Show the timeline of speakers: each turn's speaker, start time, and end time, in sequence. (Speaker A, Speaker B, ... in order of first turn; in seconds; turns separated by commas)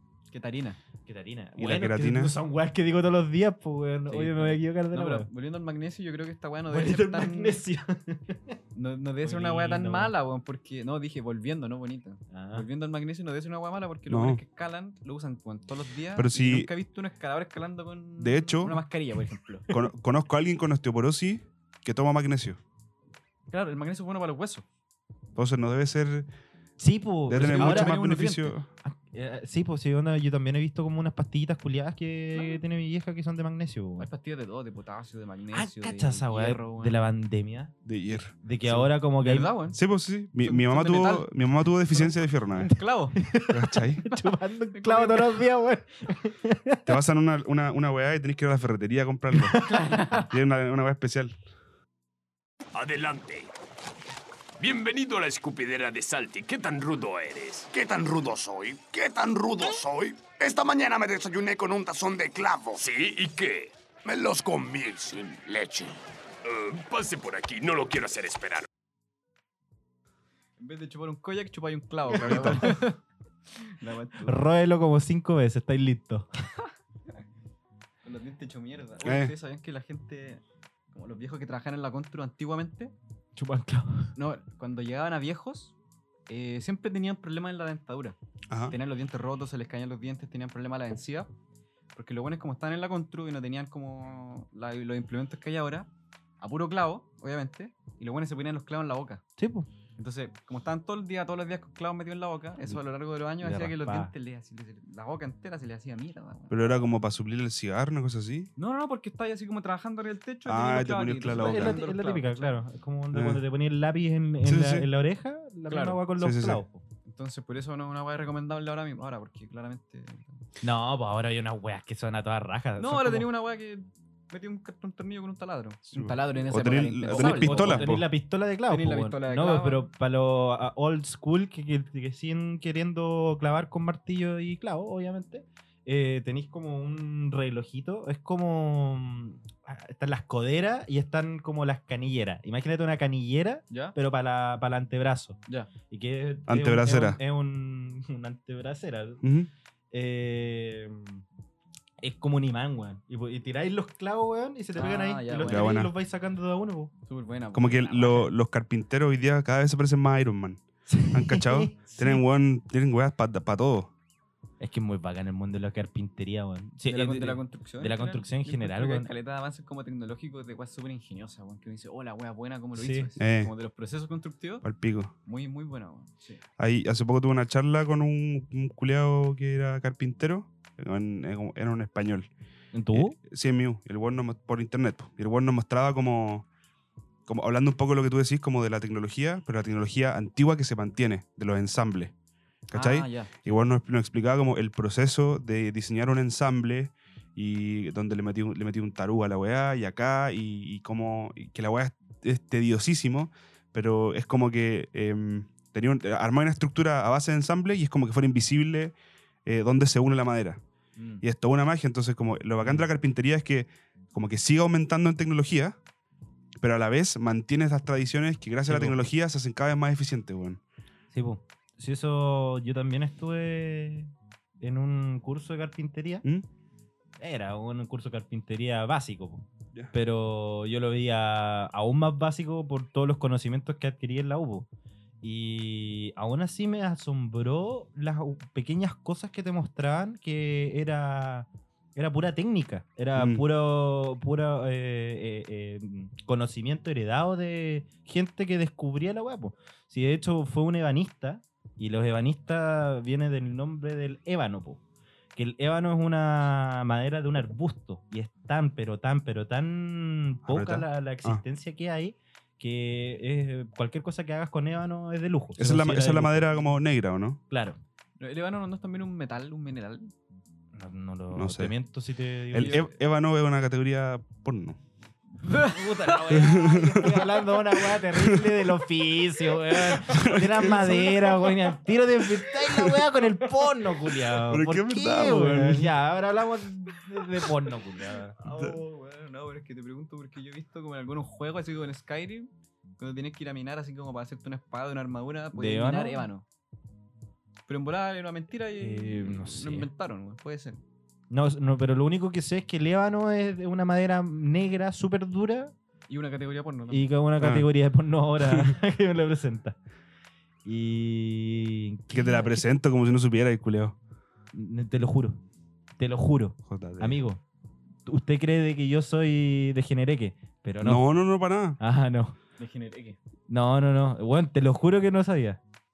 Speaker A: 0.3-0.8, Speaker B: 1.1-5.3, Speaker C: 1.6-2.4, Speaker A: 4.1-7.6, Speaker B: 6.7-8.6, Speaker A: 8.7-19.7, Speaker B: 9.2-10.2, Speaker B: 12.3-12.7, Speaker C: 14.1-14.4, Speaker C: 16.2-16.7, Speaker C: 18.2-18.8, Speaker C: 19.7-22.6, Speaker A: 23.5-24.6, Speaker C: 25.4-26.3, Speaker B: 26.8-28.0, Speaker A: 27.3-28.6, Speaker C: 27.3-28.7, Speaker B: 28.8-34.1, Speaker A: 32.4-32.6, Speaker A: 34.0-37.0, Speaker B: 35.5-37.7, Speaker C: 37.9-38.4, Speaker B: 38.3-39.5, Speaker A: 38.7-39.8, Speaker C: 39.7-42.8, Speaker A: 40.4-41.3, Speaker A: 41.9-43.2, Speaker B: 43.2-47.0, Speaker C: 43.5-44.1, Speaker A: 44.7-45.4, Speaker C: 46.9-51.4, Speaker B: 49.3-50.1, Speaker A: 49.7-50.2, Speaker D: 52.7-53.5, Speaker D: 54.6-57.7, Speaker E: 57.7-62.8, Speaker D: 62.8-63.8, Speaker E: 64.0-66.0, Speaker D: 66.4-68.7, Speaker A: 70.6-73.0, Speaker B: 72.1-72.9, Speaker C: 72.2-72.6, Speaker A: 73.6-74.4, Speaker B: 74.2-76.3, Speaker A: 78.0-82.9, Speaker C: 79.0-79.3, Speaker B: 83.4-84.2, Speaker A: 84.2-85.7, Speaker A: 86.3-88.2, Speaker C: 88.5-88.8, Speaker A: 88.7-91.3, Speaker A: 92.0-95.9, Speaker A: 96.4-99.2, Speaker B: 99.4-99.7, Speaker A: 100.0-106.8, Speaker B: 103.4-104.1, Speaker C: 106.5-108.5, Speaker A: 108.6-112.6, Speaker C: 110.5-111.8, Speaker B: 111.3-116.8, Speaker C: 113.1-113.4, Speaker C: 114.4-114.9, Speaker A: 115.7-116.0, Speaker C: 116.2-116.6, Speaker A: 117.0-120.3, Speaker B: 120.6-123.3, Speaker A: 122.8-128.0, Speaker C: 125.9-128.1, Speaker B: 127.1-149.2, Speaker A: 128.7-129.8, Speaker A: 143.7-143.9, Speaker C: 146.5-147.2, Speaker C: 149.2-149.5, Speaker B: 149.9-151.2, Speaker B: 152.0-156.9, Speaker A: 154.8-155.8, Speaker C: 155.5-155.9, Speaker A: 157.1-158.3, Speaker C: 157.5-163.9, Speaker B: 160.9-162.2, Speaker B: 164.6-169.1, Speaker A: 166.9-174.7, Speaker B: 172.8-173.1, Speaker C: 173.2-173.5, Speaker C: 174.6-175.1, Speaker A: 175.3-176.4, Speaker C: 176.6-182.3, Speaker B: 182.7-183.2, Speaker C: 182.9-186.5, Speaker C: 187.3-192.1, Speaker C: 192.7-208.9, Speaker A: 192.7-193.3, Speaker C: 209.5-210.6, Speaker A: 211.0-211.2, Speaker C: 211.2-215.8, Speaker B: 212.6-212.9, Speaker C: 216.6-220.6, Speaker B: 218.7-219.0, Speaker B: 221.1-226.2, Speaker B: 227.2-234.7, Speaker B: 235.2-254.8, Speaker C: 243.2-243.5, Speaker B: 255.4-266.7, Speaker C: 260.5-261.4, Speaker C: 265.6-267.4, Speaker B: 267.5-267.8, Speaker A: 268.2-270.1, Speaker B: 270.7-272.9, Speaker C: 271.3-271.7, Speaker C: 272.5-274.8, Speaker A: 272.5-272.9, Speaker A: 275.5-275.8, Speaker B: 275.5-288.4, Speaker C: 276.3-278.7, Speaker C: 279.7-281.5, Speaker C: 284.5-285.9, Speaker A: 288.4-296.4, Speaker B: 295.5-296.3, Speaker A: 297.7-300.8, Speaker B: 298.8-299.9, Speaker B: 301.3-305.7, Speaker A: 306.1-307.1, Speaker B: 306.9-309.8, Speaker C: 307.4-307.7, Speaker B: 310.6-312.6, Speaker C: 312.1-314.0, Speaker B: 314.5-315.4, Speaker B: 316.0-317.4, Speaker C: 316.7-317.2, Speaker B: 318.1-321.0, Speaker C: 320.8-321.8, Speaker B: 321.8-322.4, Speaker A: 322.6-323.2, Speaker B: 323.5-325.6